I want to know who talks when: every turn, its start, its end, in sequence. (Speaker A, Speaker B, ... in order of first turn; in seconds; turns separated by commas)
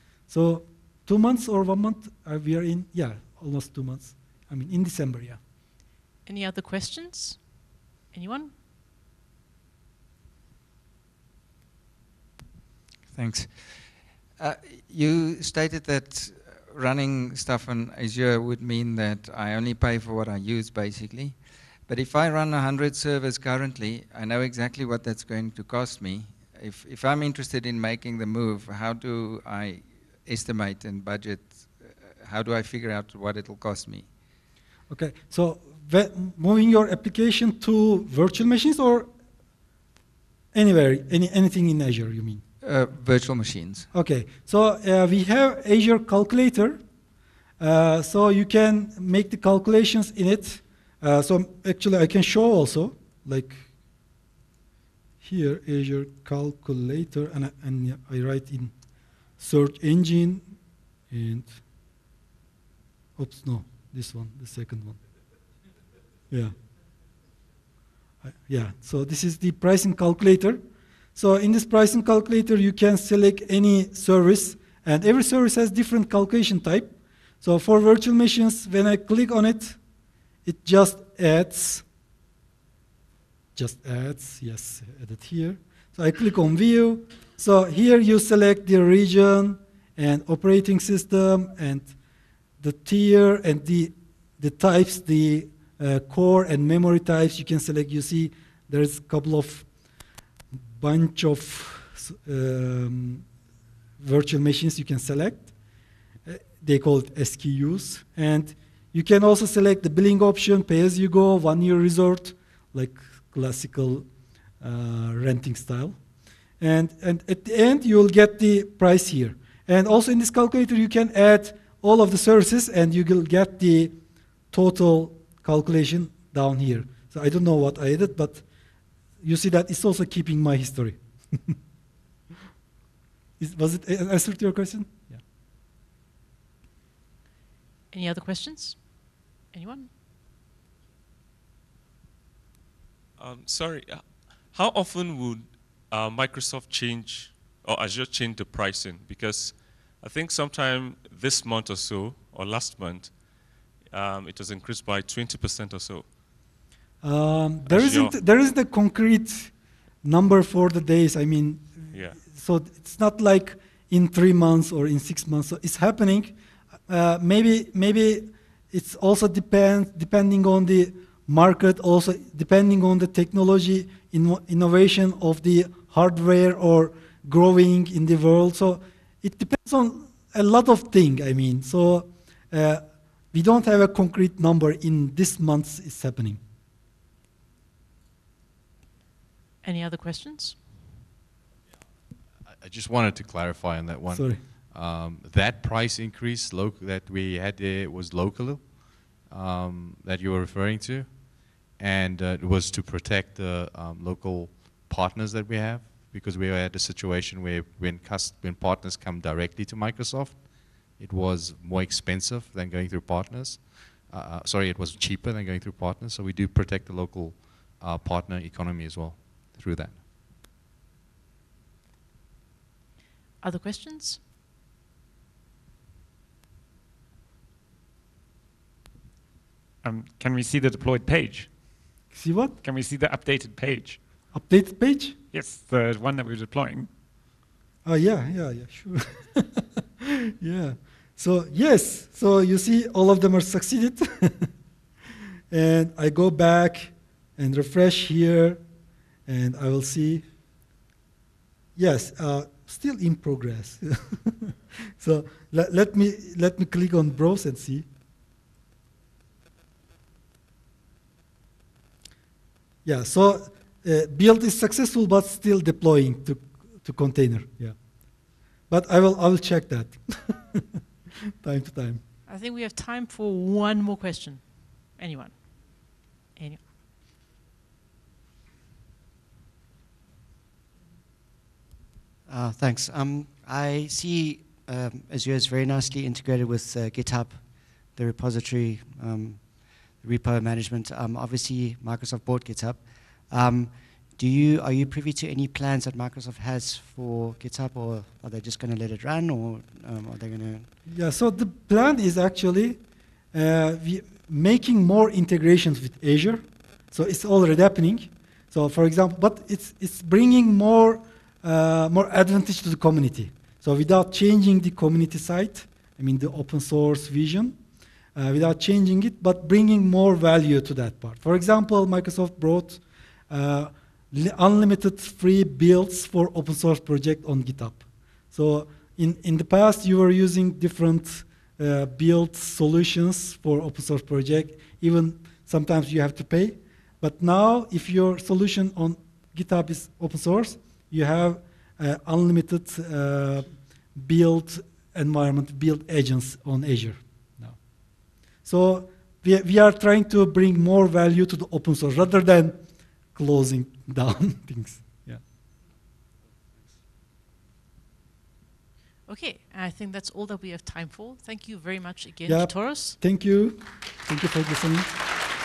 Speaker A: 0.3-5.4, Speaker B: 6.2-8.5, Speaker C: 13.1-34.1, Speaker A: 34.9-39.1, Speaker A: 40.5-42.4, Speaker C: 42.6-43.9, Speaker A: 43.9-46.8, Speaker A: 47.6-53.6, Speaker A: 55.2-58.7, Speaker A: 59.4-60.5, Speaker A: 61.1-61.6, Speaker A: 63.2-65.0, Speaker A: 66.3-66.5, Speaker A: 68.3-70.6, Speaker A: 71.2-79.8, Speaker A: 80.5-81.8, Speaker A: 83.6-91.9, Speaker A: 92.6-99.7, Speaker A: 100.7-103.2, Speaker A: 104.0-105.5, Speaker A: 106.3-114.1, Speaker A: 114.6-116.0, Speaker A: 116.6-124.0, Speaker A: 124.5-128.4, Speaker A: 129.2-131.6, Speaker A: 133.4-135.1, Speaker B: 137.9-138.8, Speaker B: 139.5-139.9, Speaker D: 143.2-153.2, Speaker D: 153.8-156.0, Speaker A: 157.0-166.3, Speaker A: 166.9-186.4, Speaker B: 189.6-190.6, Speaker E: 192.5-220.0, Speaker A: 194.1-194.4, Speaker B: 223.4-224.2, Speaker F: 229.8-231.8, Speaker A: 232.1-232.6, Speaker F: 232.6-234.2, Speaker A: 234.3-235.2, Speaker F: 235.3-236.9, Speaker A: 237.8-244.5, Speaker A: 245.5-248.6, Speaker A: 249.3-250.2, Speaker A: 251.8-257.9, Speaker A: 262.9-267.8, Speaker A: 268.7-270.6, Speaker A: 271.4-272.0, Speaker B: 272.3-276.6, Speaker G: 282.3-300.7, Speaker A: 300.9-302.8, Speaker A: 303.3-317.6, Speaker A: 318.1-347.6, Speaker A: 348.4-352.6, Speaker A: 353.1-355.2, Speaker B: 359.1-363.0, Speaker A: 362.3-365.0